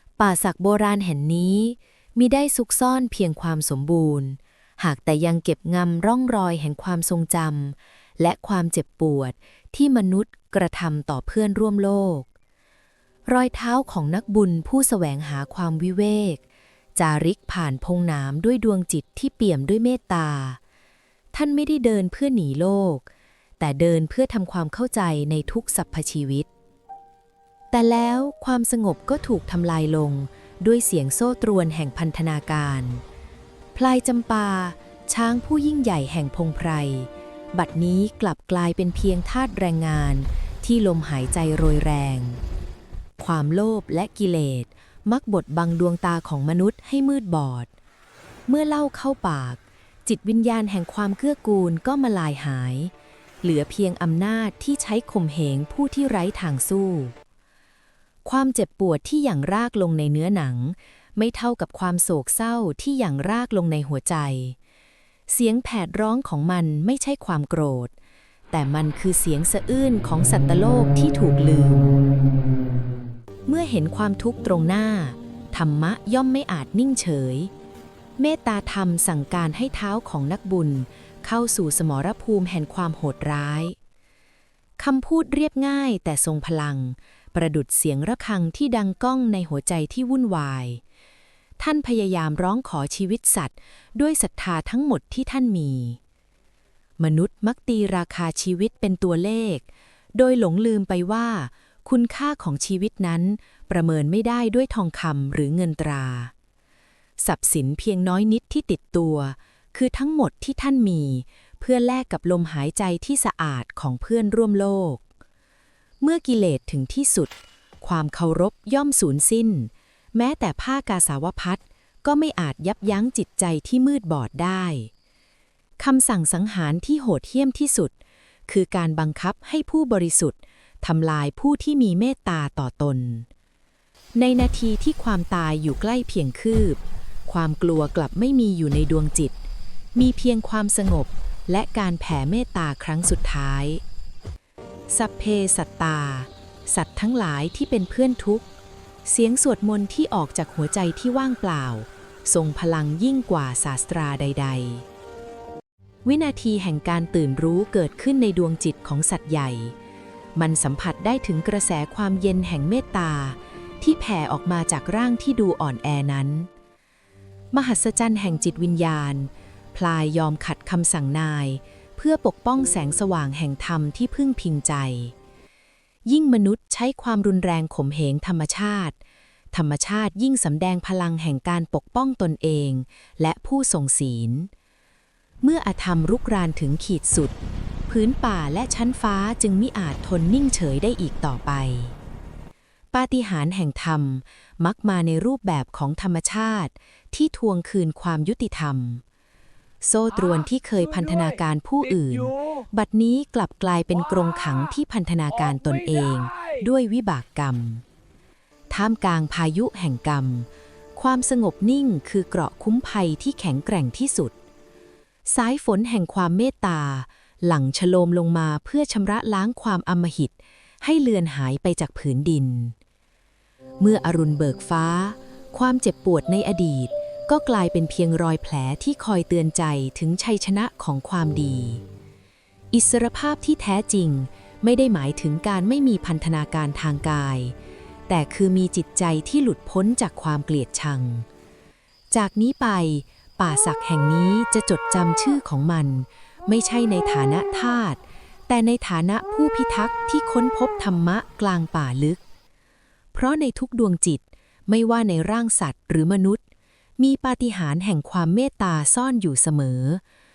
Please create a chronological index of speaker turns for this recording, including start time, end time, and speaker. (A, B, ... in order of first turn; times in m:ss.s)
0:00.2-0:12.3 A
0:13.3-0:16.4 A
0:17.0-0:20.6 A
0:21.3-0:23.1 A
0:23.6-0:26.5 A
0:27.7-0:33.0 A
0:33.7-0:42.4 A
0:43.2-0:47.7 A
0:48.5-0:52.9 A
0:53.4-0:57.2 A
0:58.2-1:04.6 A
1:05.3-1:07.9 A
1:08.5-1:11.9 A
1:13.5-1:17.5 A
1:18.2-1:23.8 A
1:24.8-1:30.8 A
1:31.6-1:36.0 A
1:37.0-1:46.3 A
1:47.2-1:55.0 A
1:56.0-2:04.9 A
2:05.8-2:07.9 A
2:08.5-2:13.3 A
2:14.2-2:19.4 A
2:20.0-2:23.8 A
2:24.9-2:28.5 A
2:29.0-2:34.8 A
2:36.0-2:39.7 A
2:40.4-2:46.5 A
2:47.5-2:55.1 A
2:56.0-2:59.0 A
2:59.5-3:04.5 A
3:05.4-3:07.4 A
3:07.9-3:12.0 A
3:12.9-3:19.0 A
3:19.8-3:27.8 A
3:28.7-3:34.3 A
3:35.2-3:42.8 A
3:43.8-3:51.8 A
3:52.7-3:57.6 A
3:58.1-4:01.3 A
4:02.1-4:12.2 A
4:13.1-4:16.4 A
4:17.0-4:20.0 A